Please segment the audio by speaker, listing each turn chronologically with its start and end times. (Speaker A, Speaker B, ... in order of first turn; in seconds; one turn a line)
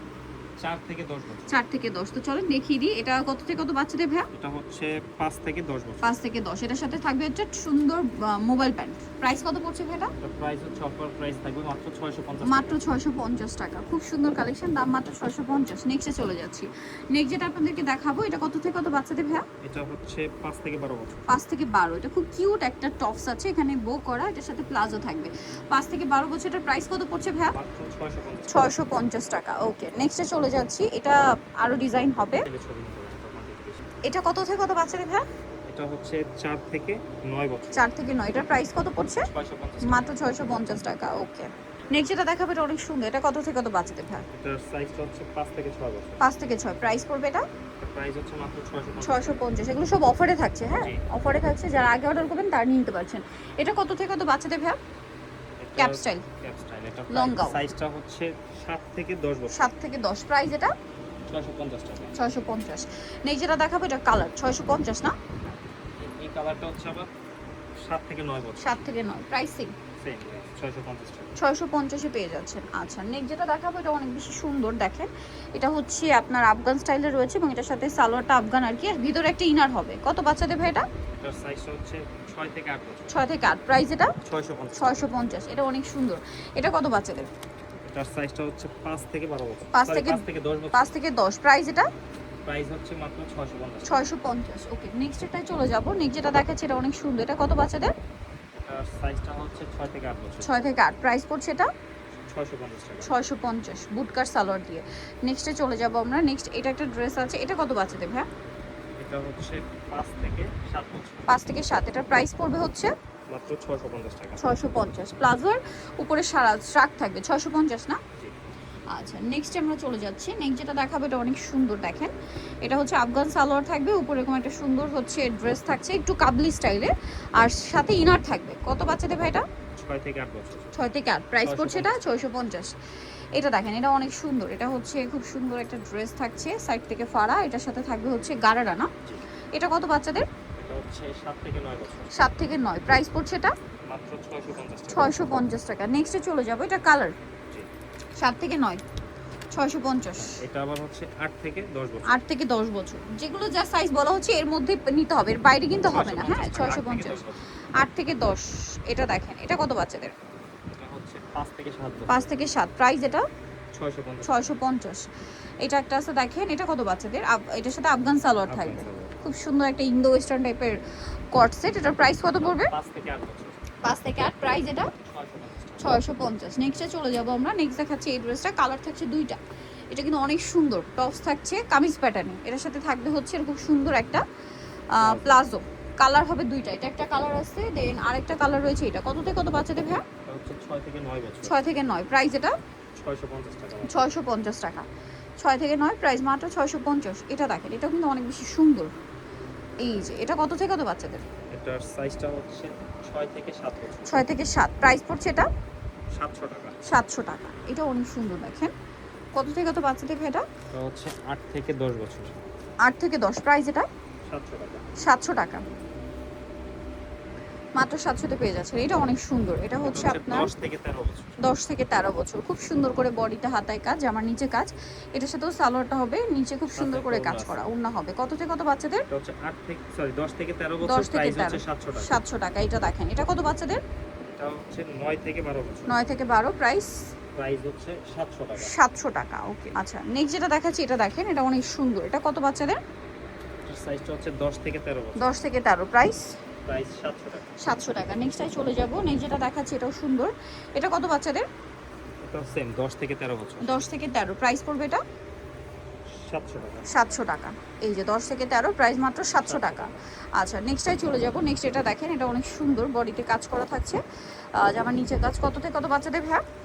Speaker A: 0.6-1.5
Speaker B: 1.5-4.3
Speaker A: 4.3-6.1
Speaker B: 6.0-10.1
Speaker A: 10.2-12.8
Speaker B: 12.4-19.5
Speaker A: 19.6-21.2
Speaker B: 21.3-27.6
Speaker A: 27.5-28.7
Speaker B: 28.5-32.5
Speaker A: 32.5-33.9
Speaker B: 34.0-35.3
Speaker A: 35.7-37.9
Speaker B: 37.7-39.3
Speaker A: 39.2-40.1
Speaker B: 39.8-44.2
Speaker A: 44.3-46.2
Speaker B: 46.2-47.4
Speaker A: 47.8-49.4
Speaker B: 49.0-54.8
Speaker A: 55.6-59.6
Speaker B: 55.8-56.2
Speaker B: 57.1-57.6
Speaker B: 59.5-60.7
Speaker A: 61.3-62.2
Speaker B: 62.1-65.2
Speaker A: 66.0-67.1
Speaker A: 67.8-68.9
Speaker B: 68.6-69.7
Speaker A: 70.0-71.4
Speaker B: 71.4-80.9
Speaker A: 81.2-83.2
Speaker B: 83.1-84.1
Speaker A: 84.2-85.3
Speaker B: 84.8-87.3
Speaker A: 87.8-90.9
Speaker B: 89.7-91.9
Speaker A: 92.4-94.0
Speaker B: 93.8-97.9
Speaker A: 98.5-100.7
Speaker B: 100.4-101.7
Speaker A: 102.2-103.1
Speaker B: 103.0-108.3
Speaker A: 109.0-111.3
Speaker B: 111.3-112.9
Speaker A: 113.3-114.4
Speaker B: 114.4-118.0
Speaker B: 118.9-129.4
Speaker A: 129.8-130.8
Speaker B: 130.7-132.7
Speaker A: 131.4-132.0
Speaker B: 133.3-138.9
Speaker B: 139.5-140.2
Speaker A: 140.6-142.1
Speaker B: 142.1-143.5
Speaker A: 143.9-145.2
Speaker B: 144.9-147.1
Speaker B: 148.2-148.8
Speaker B: 149.5-150.4
Speaker A: 150.2-152.2
Speaker B: 152.1-157.3
Speaker A: 155.8-157.5
Speaker B: 157.8-160.1
Speaker A: 160.7-162.3
Speaker B: 162.1-163.2
Speaker A: 163.7-164.5
Speaker B: 164.2-165.1
Speaker B: 165.6-170.8
Speaker A: 168.5-169.1
Speaker B: 171.3-172.7
Speaker A: 172.4-173.7
Speaker B: 173.8-174.9
Speaker A: 174.9-176.0
Speaker B: 175.8-179.4
Speaker B: 179.9-184.2
Speaker B: 184.9-190.0
Speaker A: 185.0-185.4
Speaker A: 190.2-191.6
Speaker B: 191.4-192.6
Speaker A: 192.9-194.1
Speaker B: 193.9-194.9
Speaker B: 195.4-198.9
Speaker B: 199.8-201.2
Speaker A: 201.5-204.3
Speaker B: 204.1-205.5
Speaker A: 206.1-206.8
Speaker B: 206.8-208.7
Speaker B: 209.3-210.5
Speaker A: 210.7-212.4
Speaker B: 212.8-213.9
Speaker A: 214.2-214.8
Speaker B: 215.0-215.6
Speaker B: 217.8-220.5
Speaker A: 219.8-221.3
Speaker B: 221.4-229.1
Speaker A: 226.7-227.7
Speaker A: 229.1-232.1
Speaker B: 230.8-233.8
Speaker A: 234.2-235.9
Speaker B: 235.9-237.0
Speaker A: 237.3-238.7
Speaker B: 238.6-242.8
Speaker A: 243.6-245.3
Speaker B: 245.2-246.4
Speaker A: 246.6-247.5
Speaker B: 247.6-251.4
Speaker A: 252.2-253.7
Speaker B: 253.6-255.0
Speaker A: 256.1-257.2
Speaker B: 256.9-264.0
Speaker A: 259.4-260.0
Speaker B: 264.6-266.4